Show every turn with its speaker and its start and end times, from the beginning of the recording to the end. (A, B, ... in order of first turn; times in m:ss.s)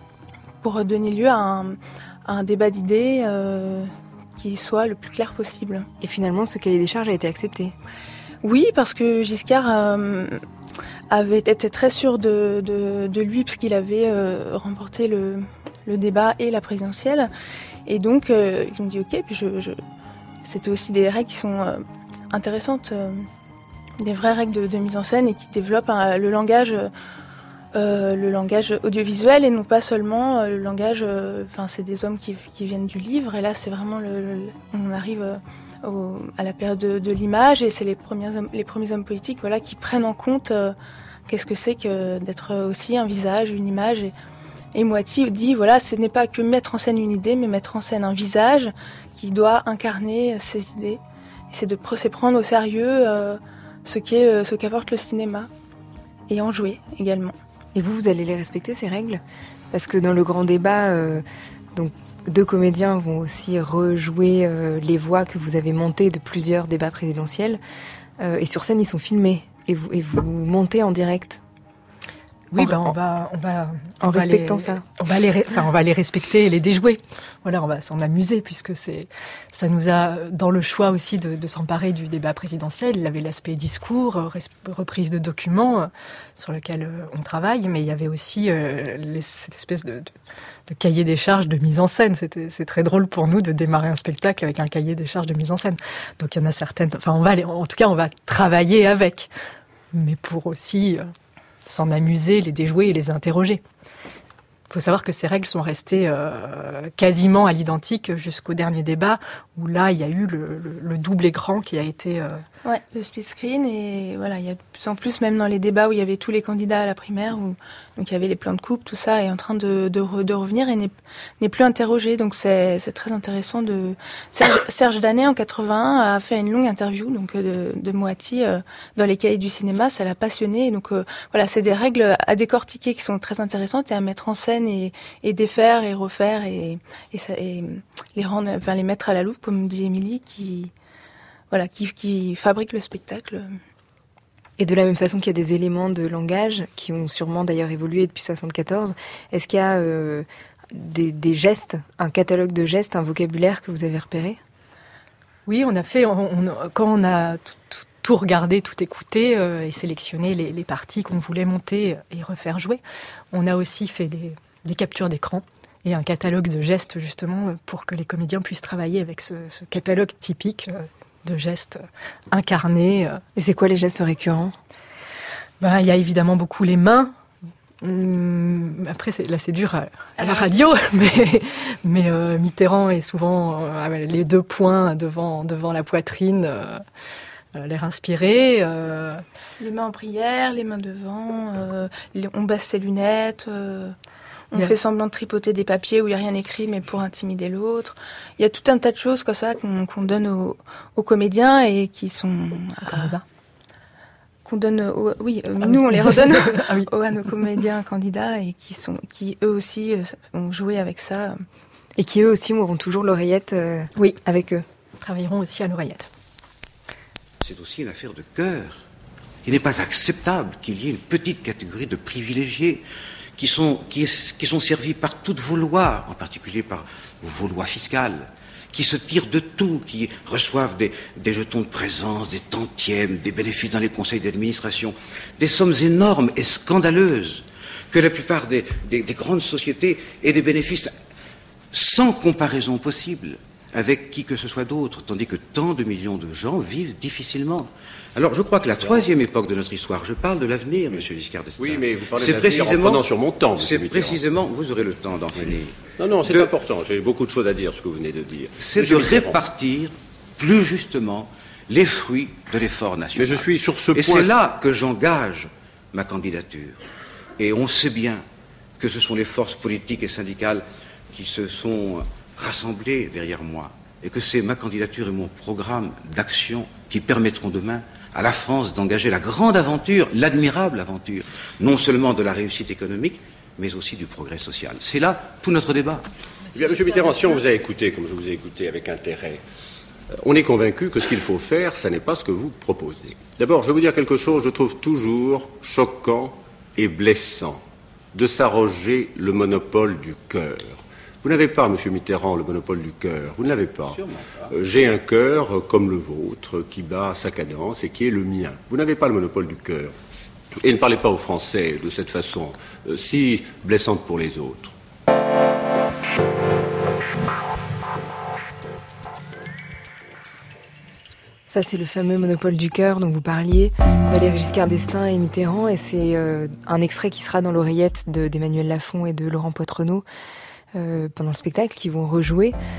0:00.6-0:05.9 A
0:06.0-0:07.7 B
0:08.4-0:10.4 A
0:11.1-0:17.3 A
0:17.9-0:19.8 A
0:20.4-0:23.3 A
0:24.0-0:26.9 A
0:27.8-0:40.8 A
0:41.3-0:44.1 A
0:44.7-0:51.0 A
0:51.5-0:55.5 A
0:56.3-0:57.4 A
0:57.8-1:07.6 B
1:08.2-1:11.4 B
1:12.5-1:30.1 C
1:12.6-1:13.0 B
1:14.0-1:14.8 B
1:30.7-1:39.3 C
1:39.9-1:41.1 C
1:41.7-1:43.6 C
1:44.7-1:52.4 C
1:52.6-2:20.7 A
2:21.5-2:23.6 A
2:24.6-2:34.4 B
2:35.5-2:53.2 C
2:53.4-2:54.6 B
2:55.6-2:57.1 C
2:57.8-3:06.8 C
3:00.2-3:00.6 A
3:07.6-3:09.2 C
3:09.6-3:14.0 A
3:14.5-3:23.1 A
3:22.9-3:23.2 C
3:24.4-3:31.4 A
3:25.6-3:26.9 C
3:32.0-3:34.6 B
3:35.0-3:36.1 C
3:37.4-3:38.8 D
3:39.4-3:42.8 D
3:43.4-4:01.0 D
4:01.7-4:16.5 D
4:08.8-4:09.1 E
4:11.6-4:14.2 E
4:15.4-4:19.4 E
4:18.6-4:26.8 D
4:23.2-4:24.3 E
4:27.4-4:28.2 D
4:28.8-4:46.0 D
4:46.5-4:49.4 E
4:50.1-5:10.0 E
5:10.6-5:14.7 E
5:21.5-5:30.0 B
5:30.8-5:32.6 B